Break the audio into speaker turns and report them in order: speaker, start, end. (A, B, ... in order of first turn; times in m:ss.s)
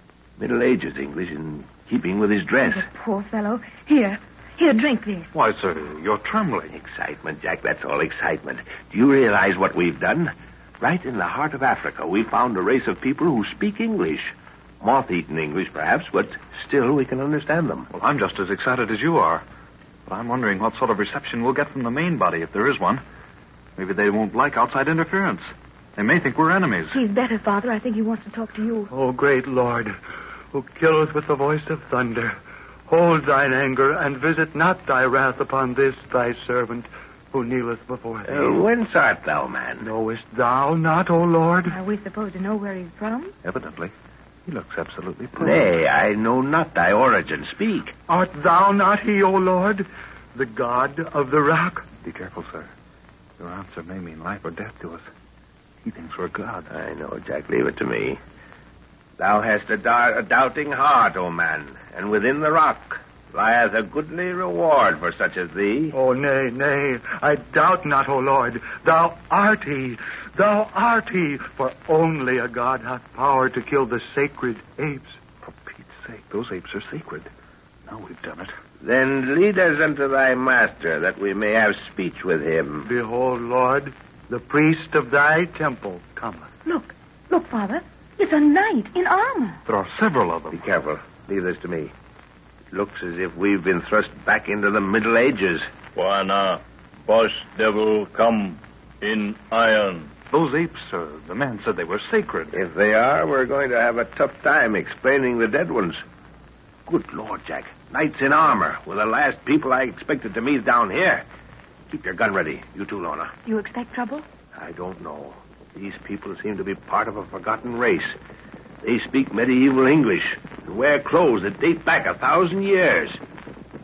0:00.4-0:02.9 A
0:02.7-0:05.3 B
0:05.3-0:06.7 C
0:06.7-0:17.9 A
0:17.9-0:19.4 C
0:20.1-0:23.0 C
0:23.8-0:27.0 C
0:26.9-0:28.9 B
0:28.9-0:30.0 D
0:30.5-0:32.4 D
0:32.9-0:38.6 D
0:38.3-0:39.9 A
0:39.8-0:41.8 D
0:41.7-0:43.3 B
0:43.4-0:43.9 C
0:44.5-0:45.7 C
0:45.4-0:47.9 A
0:48.1-0:51.9 D
0:51.9-0:52.7 C
0:53.4-0:55.0 C
0:55.8-0:56.7 C
0:56.7-0:58.2 A
0:59.2-1:06.0 A
1:05.9-1:15.2 D
1:15.4-1:17.3 C
1:17.9-1:18.5 C
1:18.8-1:22.9 A
1:22.9-1:26.5 D
1:26.6-1:29.6 B
1:29.7-1:30.6 C
1:30.5-1:31.9 A
1:32.7-1:35.7 A
1:36.0-1:40.1 E
1:40.3-1:42.6 C
1:42.5-1:46.0 A
1:46.9-1:51.2 A
1:51.9-1:53.3 A
1:53.5-1:54.3 B
1:54.6-1:58.2 A
1:58.8-2:03.2 A